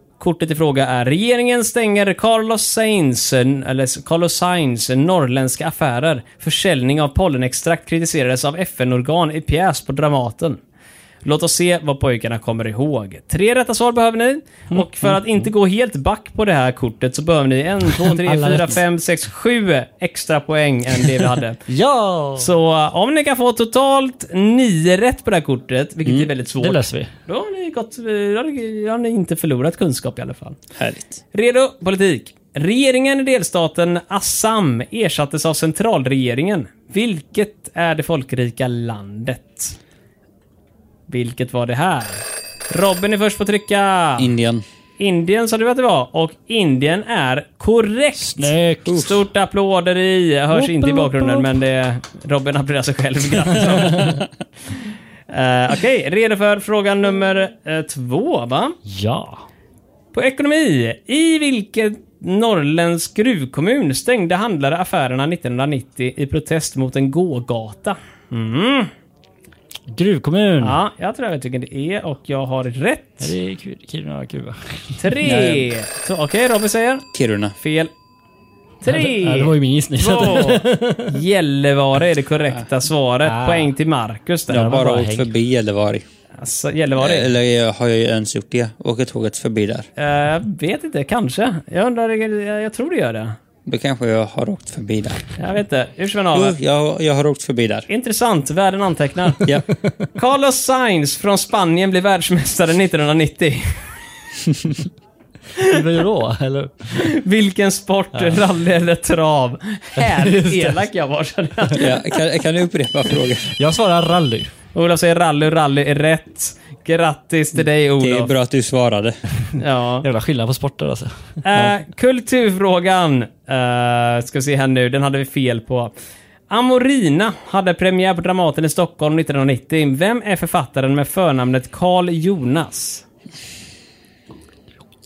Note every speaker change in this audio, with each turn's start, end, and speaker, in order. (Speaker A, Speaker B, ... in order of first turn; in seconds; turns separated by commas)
Speaker A: 0.2-10.6, Speaker A: 11.2-21.6, Speaker B: 14.7-15.5, Speaker B: 18.1-18.8, Speaker B: 21.7-22.5, Speaker A: 22.4-30.6, Speaker B: 26.6-27.1, Speaker C: 30.7-31.2, Speaker A: 31.3-39.7, Speaker A: 41.1-44.3, Speaker C: 44.2-44.6, Speaker A: 45.0-54.2, Speaker B: 48.2-49.1, Speaker C: 48.9-49.1, Speaker B: 50.5-51.5, Speaker A: 55.3-58.8, Speaker B: 58.9-59.4, Speaker A: 60.1-68.9, Speaker B: 69.9-70.8, Speaker A: 70.6-73.3, Speaker B: 73.2-75.2, Speaker A: 75.0-77.0, Speaker C: 75.2-75.7, Speaker C: 77.1-77.5, Speaker A: 77.6-77.9, Speaker A: 78.8-84.9, Speaker B: 78.8-81.2, Speaker B: 83.2-83.7, Speaker B: 84.5-85.3, Speaker C: 84.5-86.0, Speaker A: 86.4-87.3, Speaker C: 86.9-89.9, Speaker A: 90.0-93.4, Speaker C: 93.7-95.3, Speaker A: 95.4-96.6, Speaker C: 96.3-97.9, Speaker A: 97.9-99.4, Speaker A: 100.1-103.8, Speaker B: 105.6-107.0, Speaker A: 107.0-112.0, Speaker B: 110.0-110.8, Speaker C: 111.7-113.5, Speaker B: 113.5-114.5, Speaker A: 114.7-118.3, Speaker C: 118.0-119.2, Speaker A: 119.6-120.0, Speaker B: 120.0-121.1, Speaker A: 121.4-125.9, Speaker A: 126.5-133.0